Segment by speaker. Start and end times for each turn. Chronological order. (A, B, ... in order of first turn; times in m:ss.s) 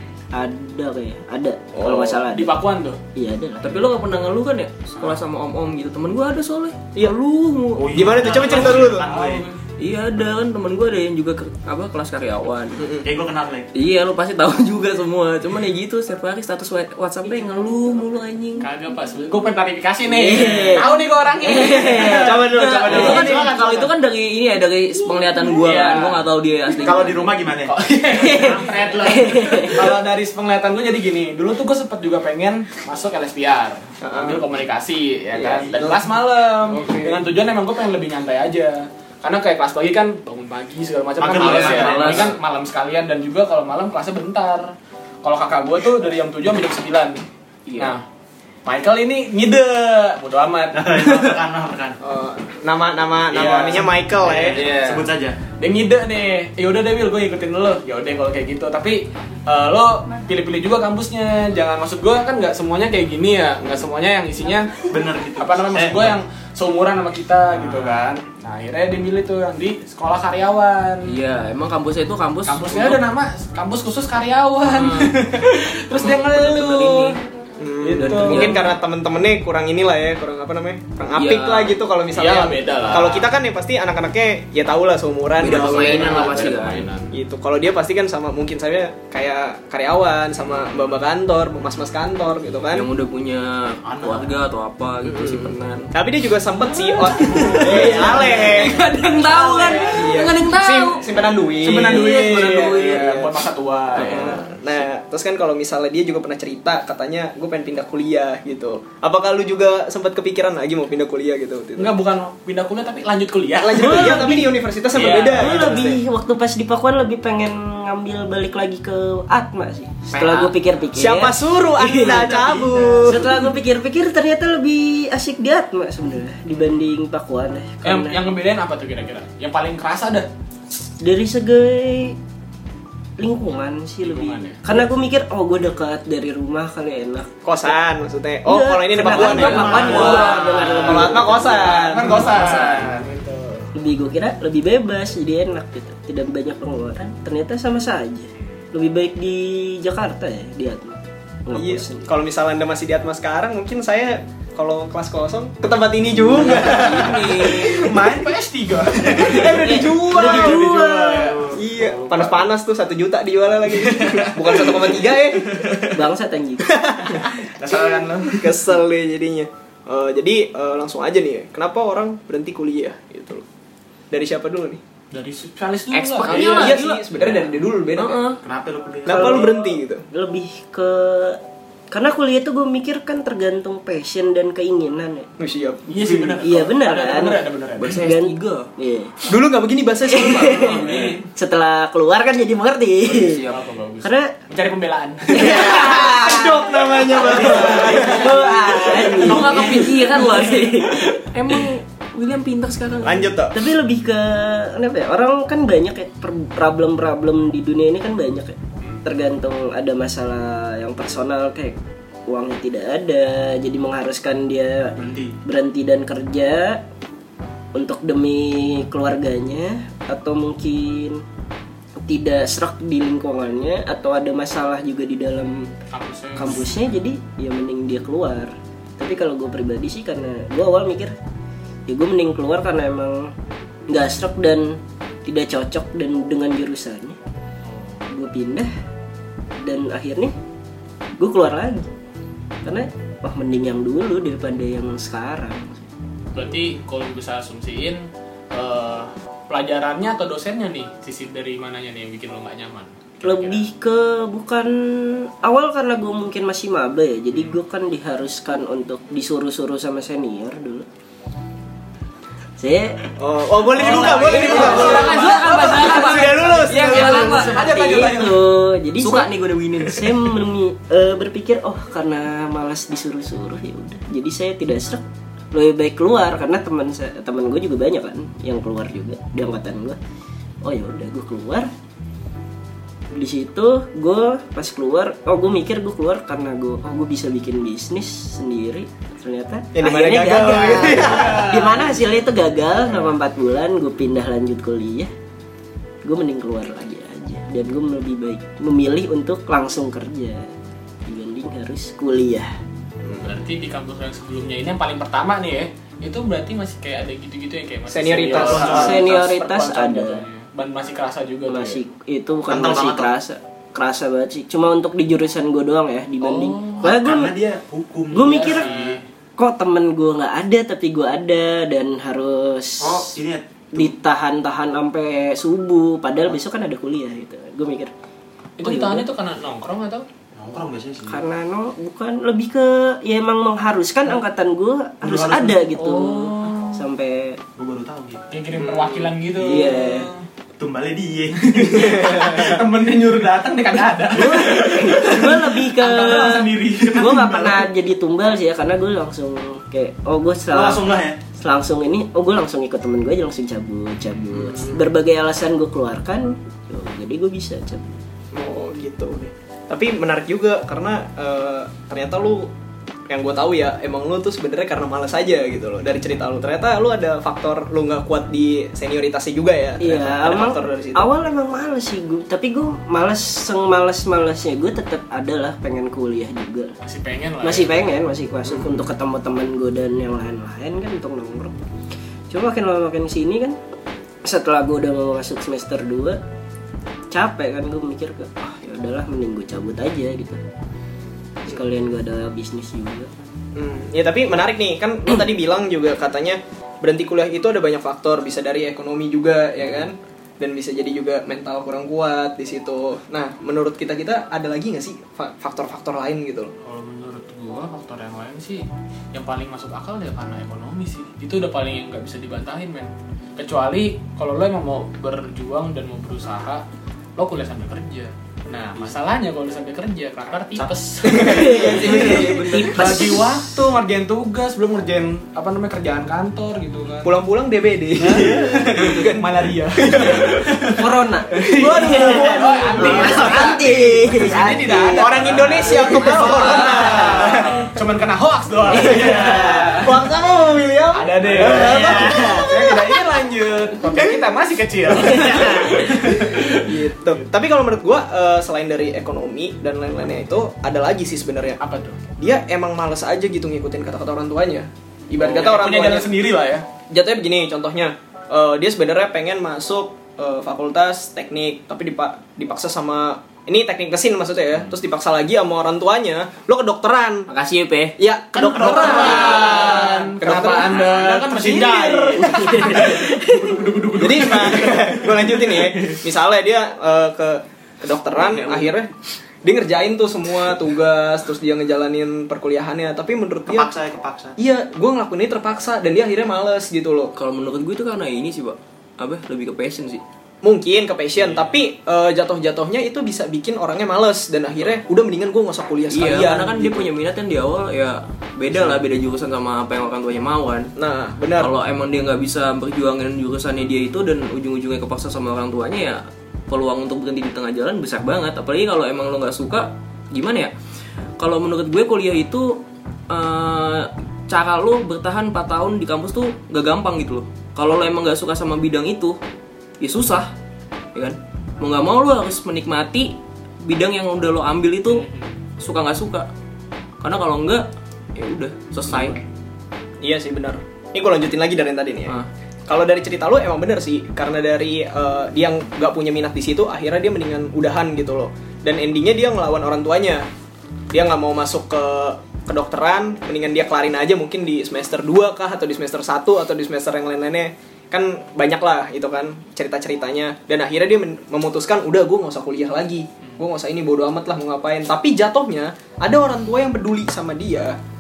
0:00.3-0:02.6 A
0:01.7-0:02.2 B
0:02.2-0:03.0 C
0:03.2-0:03.7 A
0:03.6-0:08.8 D
0:07.8-0:09.5 E
0:07.8-0:09.1 B
0:08.5-0:09.6 C
0:09.8-0:12.9 D
0:12.8-0:13.1 B
0:13.0-0:13.7 E
0:13.7-0:18.7 D
0:18.6-0:23.5 C
0:20.1-0:23.4 A
0:22.1-0:27.4 D
0:22.7-0:23.9 E
0:25.5-0:26.2 C
0:26.7-0:27.8 E
0:27.7-0:47.2 C
0:28.1-0:30.0 A
0:34.0-0:34.4 B
0:35.6-0:35.9 B
0:41.2-0:42.4 E
0:41.3-0:42.4 D
0:47.7-0:47.9 D
0:47.8-0:48.0 C
0:48.6-0:51.4 C
0:50.7-0:52.0 E
0:52.0-0:54.8 B
0:53.3-0:53.9 C
0:54.2-0:55.4 E
0:54.6-0:55.0 C
0:55.6-1:11.2 C
1:04.9-1:06.2 E
1:11.0-1:13.0 D
1:12.5-1:17.2 C
1:14.7-1:17.2 D
1:17.6-1:26.6 B
1:17.8-1:18.7 C
1:18.0-1:18.6 D
1:21.2-1:21.8 D
1:22.1-1:23.3 C
1:25.4-1:26.9 D
1:25.4-1:27.1 C
1:27.1-1:32.9 B
1:32.7-1:35.9 D
1:33.8-1:34.4 E
1:35.0-1:51.9 B
1:37.0-1:41.1 D
1:37.4-1:38.6 C
1:39.5-1:40.0 C
1:41.6-1:44.4 C
1:41.8-1:43.1 D
1:44.0-1:44.5 D
1:51.8-1:54.3 C
1:53.6-1:56.0 B
1:53.8-1:54.5 A
1:54.9-1:55.7 C
1:55.3-2:02.5 A
2:00.1-2:00.6 C
2:01.0-2:03.3 B
2:02.0-2:03.1 C
2:03.0-2:08.2 A
2:07.8-2:10.3 C
2:11.0-2:12.2 A
2:13.2-2:17.3 A
2:14.0-2:14.6 C
2:17.4-2:22.2 B
2:18.5-2:22.9 A
2:19.1-2:23.7 C
2:19.2-2:21.1 D
2:23.8-2:32.1 A
2:31.5-2:38.2 B
2:36.3-2:37.9 D
2:37.4-2:42.4 C
2:39.0-2:40.8 B
2:39.4-2:41.4 A
2:41.5-2:45.8 B
2:43.7-2:44.8 C
2:45.9-2:46.7 A
2:46.6-2:53.4 B
2:47.6-2:48.5 E
2:47.6-2:48.4 C
2:54.1-2:54.8 B
2:55.1-2:56.8 C
2:55.9-2:57.4 D
2:56.3-2:58.2 B
2:58.0-2:58.4 D
2:58.4-2:59.5 E
2:59.1-3:00.0 B
2:59.1-3:01.4 A
3:01.9-3:05.3 A
3:05.4-3:06.4 B
3:05.9-3:08.0 C
3:06.0-3:06.6 E
3:06.4-3:09.2 A
3:07.8-3:08.7 D
3:09.3-3:11.1 B
3:10.1-3:13.4 A
3:10.4-3:11.2 C
3:10.9-3:11.2 D
3:13.1-3:13.6 D
3:13.4-3:16.1 C
3:14.0-3:14.4 A
3:15.3-3:21.3 A
3:15.3-3:18.9 B
3:17.4-3:19.9 C
3:19.1-3:23.3 D
3:23.0-3:23.7 B
3:23.5-3:36.8 A
3:35.0-3:35.4 E
3:37.8-3:41.2 A
3:42.0-3:45.7 A
3:45.9-3:46.7 C
3:46.4-3:51.1 A
3:51.9-3:53.3 A
3:53.9-3:57.2 A
3:57.7-3:58.1 C
3:58.1-3:58.7 A
3:59.6-4:00.3 A
4:01.2-4:01.9 A
4:02.6-4:05.9 A
4:06.3-4:13.7 C
4:13.2-4:20.9 A
4:22.6-4:23.1 A
4:23.2-4:27.6 B
4:23.7-4:40.0 A
4:23.7-4:28.5 C
4:23.8-4:27.6 D
4:29.0-4:30.3 D
4:40.6-4:41.7 A
4:43.1-4:55.1 A
4:49.7-4:51.8 B
4:51.0-4:51.7 C
4:56.0-5:00.5 A
5:01.1-5:02.5 A
5:03.0-5:03.3 B
5:03.1-5:11.8 C
5:07.9-5:09.3 B
5:08.3-5:09.0 E
5:08.5-5:10.2 A
5:11.5-5:17.4 A
5:12.5-5:13.1 E
5:16.2-5:16.8 C
5:16.8-5:18.7 E
5:18.1-5:18.7 A
5:18.2-5:19.0 C
5:19.4-5:23.2 A
5:22.8-5:24.0 E
5:23.7-5:27.9 A
5:28.6-5:30.1 C
5:28.6-5:29.1 A
5:30.4-5:31.2 E
5:31.1-5:37.4 A
5:35.0-5:36.8 C
5:37.6-5:38.2 E
5:38.3-5:40.2 C
5:38.6-5:39.2 B
5:39.4-5:40.1 A
5:40.6-5:42.1 E
5:41.4-5:47.4 C
5:41.7-5:42.6 B
5:44.1-5:58.0 A
5:46.0-5:47.6 E
5:50.5-5:51.2 E
5:54.4-5:54.6 C
5:58.3-6:02.5 B
6:03.1-6:11.1 B
6:09.8-6:16.8 A
6:16.8-6:17.8 C
6:17.4-6:21.5 A
6:18.5-6:18.8 B
6:22.3-6:23.6 A
6:24.2-6:26.2 A
6:27.1-6:30.4 A
6:31.4-6:33.1 A
6:33.6-6:46.5 B
6:46.6-6:56.6 C
6:57.2-7:07.1 C
7:01.0-7:03.0 B
7:01.2-7:03.2 A
7:02.1-7:02.9 D
7:07.0-7:10.5 B
7:08.0-7:20.0 C
7:08.1-7:08.5 E
7:10.7-7:17.6 A
7:11.4-7:13.7 B
7:14.9-7:17.6 B
7:18.7-7:19.9 A
7:18.7-7:23.0 B
7:20.9-7:26.8 C
7:21.4-7:22.5 A
7:23.9-7:24.2 B
7:24.9-7:26.0 A
7:26.2-7:31.6 B
7:31.6-7:32.0 C
7:32.2-7:36.1 B
7:35.2-7:36.6 C
7:36.9-7:47.3 B
7:47.3-7:48.0 D
7:48.0-7:52.9 B
7:48.3-7:56.0 C
7:48.9-7:49.6 D
7:52.2-7:53.7 A
7:54.0-8:03.7 B
7:58.2-7:58.7 D
8:03.5-8:04.4 E
8:04.4-8:07.1 B
8:07.2-8:10.0 D
8:10.4-8:16.9 B
8:15.9-8:20.7 D
8:20.8-8:21.5 B
8:21.4-8:30.5 D
8:31.2-8:39.2 D
8:39.8-8:40.3 D
8:41.0-8:45.1 D
8:44.9-8:45.3 C
8:45.6-8:46.3 D
8:47.0-8:49.2 D
8:50.0-8:52.2 B
8:52.7-9:00.3 B
9:00.9-9:17.8 B